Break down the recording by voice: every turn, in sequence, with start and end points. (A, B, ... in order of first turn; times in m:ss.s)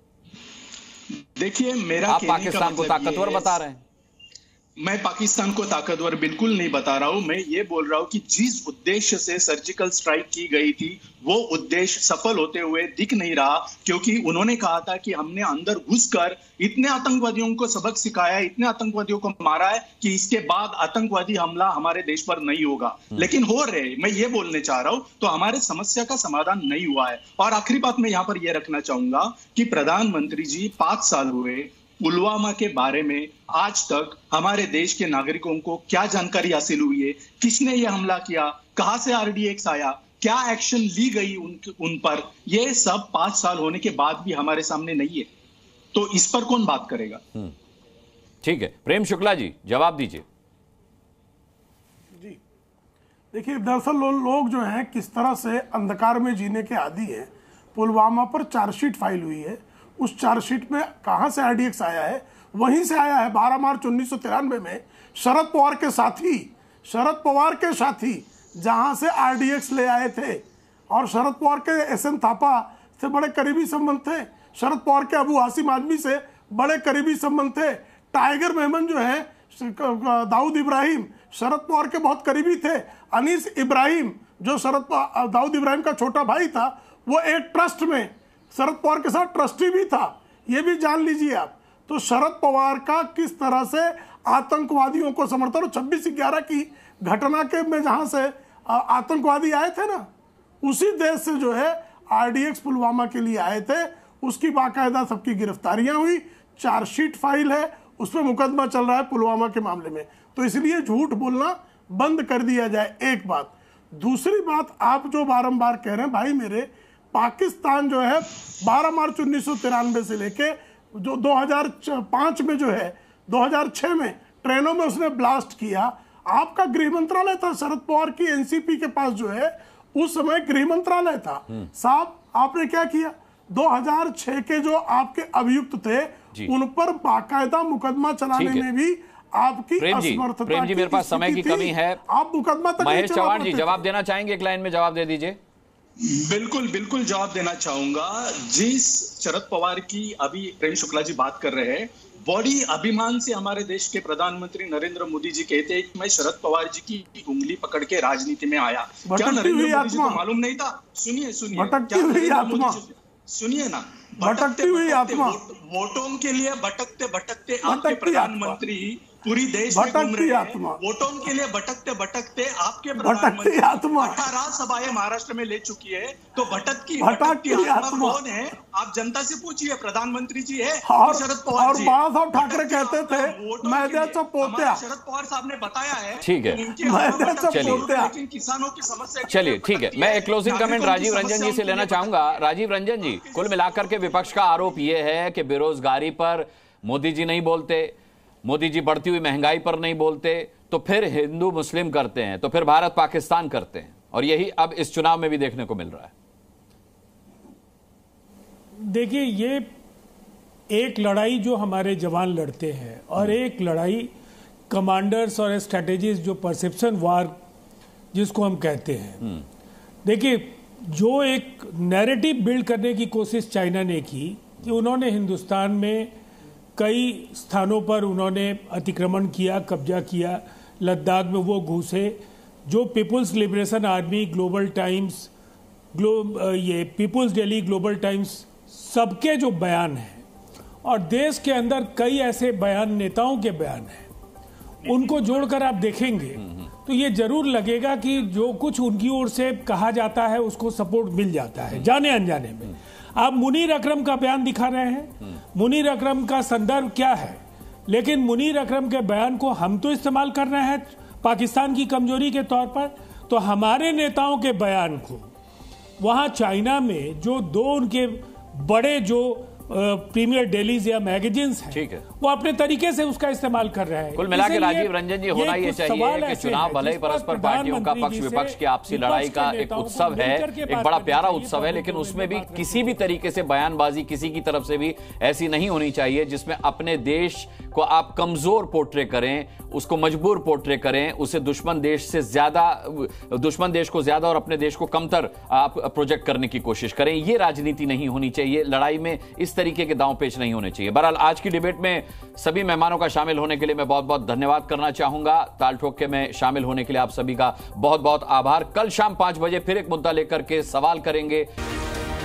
0:01.4-0:03.5 A
0:02.1-0:03.8 B
0:04.8-0:45.3 A
0:45.9-0:47.2 A
0:48.4-0:50.2 B
0:53.3-1:40.1 C
1:40.6-2:23.8 C
2:18.3-2:18.7 B
2:19.8-2:22.0 B
2:22.8-2:25.4 B
2:26.1-3:14.8 A
2:39.1-2:40.2 C
2:41.5-2:42.8 C
2:44.2-2:45.4 C
2:47.6-2:48.6 C
2:49.7-2:50.8 C
2:53.0-2:54.2 C
2:57.0-2:58.2 C
3:00.8-3:04.8 C
3:06.2-3:06.6 B
3:06.8-3:08.1 C
3:07.5-3:07.8 B
3:09.3-3:26.1 B
3:28.8-3:29.7 D
3:30.7-3:34.1 D
3:34.7-3:37.3 D
3:38.1-3:39.3 D
3:40.0-3:46.1 D
3:46.8-3:55.3 D
3:55.9-4:00.2 D
4:00.8-4:04.1 D
4:04.8-4:25.3 D
4:26.0-4:43.1 D
4:31.7-4:32.0 B
4:34.2-5:11.5 B